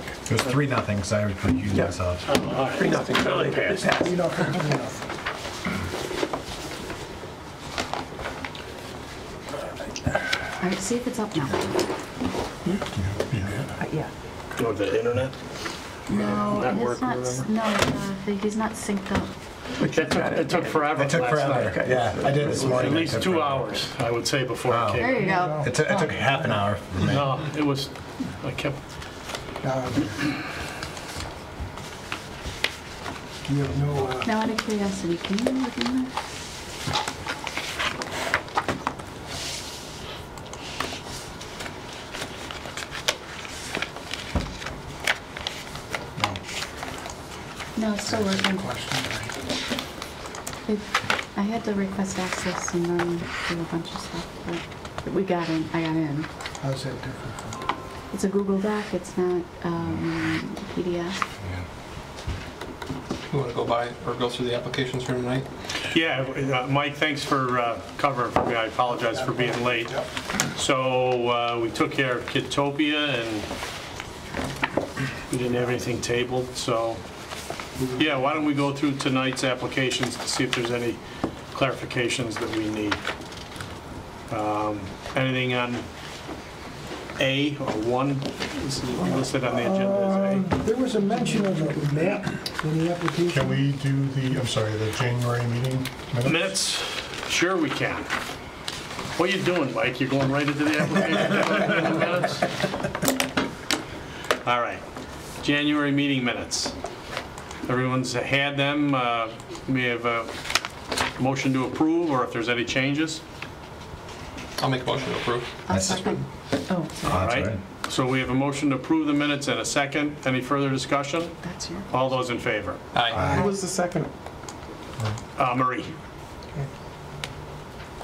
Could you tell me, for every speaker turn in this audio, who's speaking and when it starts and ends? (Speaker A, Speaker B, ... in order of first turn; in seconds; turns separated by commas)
Speaker A: 0.3-2.2, Speaker B: 1.7-4.6, Speaker C: 2.2-3.9, Speaker D: 4.0-5.0, Speaker E: 10.6-11.8, Speaker F: 13.0-13.8, Speaker C: 14.6-17.5, Speaker E: 16.1-19.3, Speaker B: 19.8-21.0, Speaker C: 19.8-25.3, Speaker A: 21.0-23.7, Speaker B: 21.6-23.2, Speaker A: 24.7-27.4, Speaker E: 25.0-26.1, Speaker D: 25.1-25.9, Speaker C: 27.0-28.8, Speaker D: 29.6-30.2, Speaker D: 33.5-34.3, Speaker E: 34.2-36.1, Speaker E: 47.8-48.7, Speaker D: 48.0-49.3, Speaker E: 50.7-56.3, Speaker D: 56.6-57.6, Speaker E: 58.1-61.2, Speaker G: 63.3-65.5, Speaker C: 65.9-73.5, Speaker D: 68.9-70.1, Speaker C: 75.3-77.0, Speaker D: 77.8-78.3, Speaker C: 78.0-81.0, Speaker C: 81.5-83.0, Speaker C: 84.3-85.8, Speaker C: 87.2-90.5, Speaker D: 89.3-93.6, Speaker F: 93.3-96.5, Speaker C: 96.2-98.1, Speaker C: 99.2-102.6, Speaker C: 104.4-104.8, Speaker C: 105.4-106.7, Speaker C: 107.7-110.3, Speaker C: 111.2-113.2, Speaker G: 114.6-116.2, Speaker E: 115.7-117.2, Speaker A: 115.7-116.1, Speaker A: 117.0-117.6, Speaker C: 117.0-122.8, Speaker E: 121.4-122.1, Speaker G: 122.9-123.4, Speaker A: 123.1-123.4, Speaker B: 123.4-124.1, Speaker C: 125.4-125.9